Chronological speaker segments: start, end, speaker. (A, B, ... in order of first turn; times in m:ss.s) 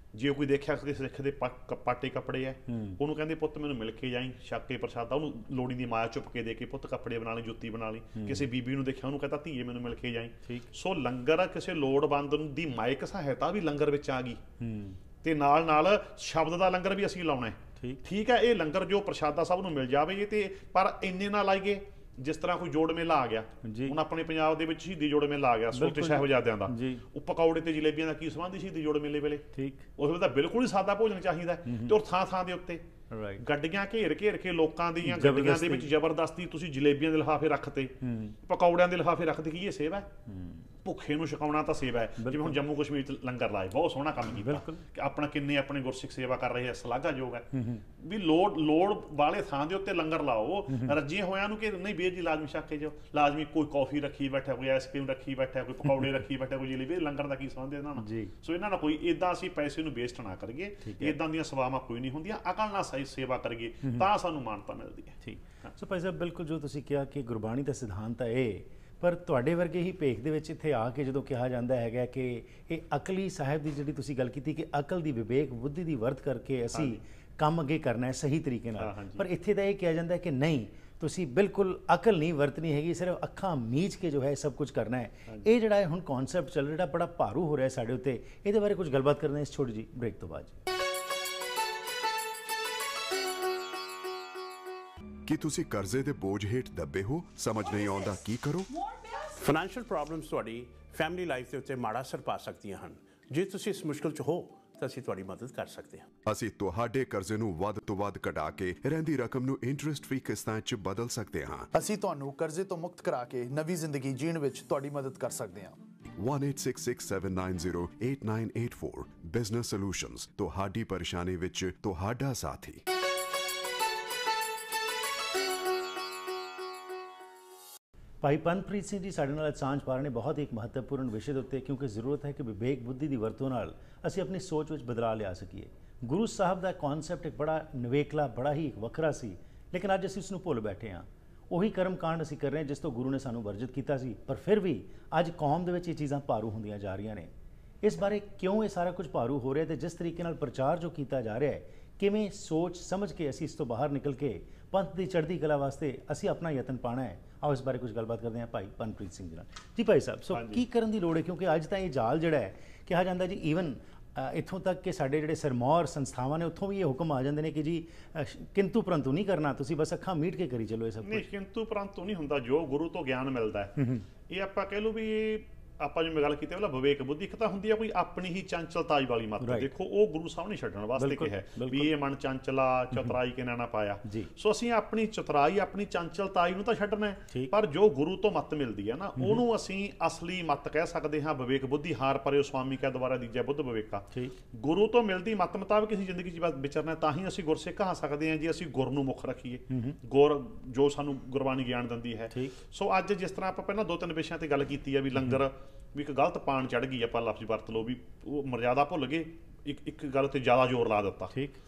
0:00.1-0:14.4 A
0:02.7-0:03.0 B
0:08.2-0:08.5 B
0:14.6-0:15.0 B
0:15.2-0:29.5 A
0:17.8-0:18.0 B
0:23.6-0:24.0 B
0:25.7-0:27.0 B
0:29.5-0:29.9 B
0:30.0-0:32.8 A
0:31.7-0:32.0 B
0:33.1-0:33.4 B
0:33.4-0:40.1 A
0:35.0-0:35.9 B
0:38.0-0:38.4 B
0:40.3-0:40.7 B
0:40.8-0:47.5 A
0:42.2-0:42.6 B
0:44.3-0:44.9 B
0:47.5-0:47.8 B
0:48.0-1:05.7 A
0:58.0-0:58.3 B
1:00.8-1:01.2 B
1:05.2-1:30.6 B
1:16.7-1:17.0 A
1:18.8-1:19.3 A
1:35.3-1:38.8 C
1:39.2-1:46.1 D
1:46.3-1:51.7 C
1:51.8-1:55.8 E
1:56.2-2:02.8 C
2:08.2-2:51.2 B
2:40.3-2:40.6 A
2:51.0-2:53.8 A
2:53.8-2:54.0 B
2:54.3-3:31.3 A
2:59.4-2:59.7 B
3:01.0-3:01.9 B
3:04.0-3:04.3 B
3:09.2-3:09.4 B
3:19.7-3:20.0 B
3:22.3-3:22.6 B
3:31.3-3:31.6 B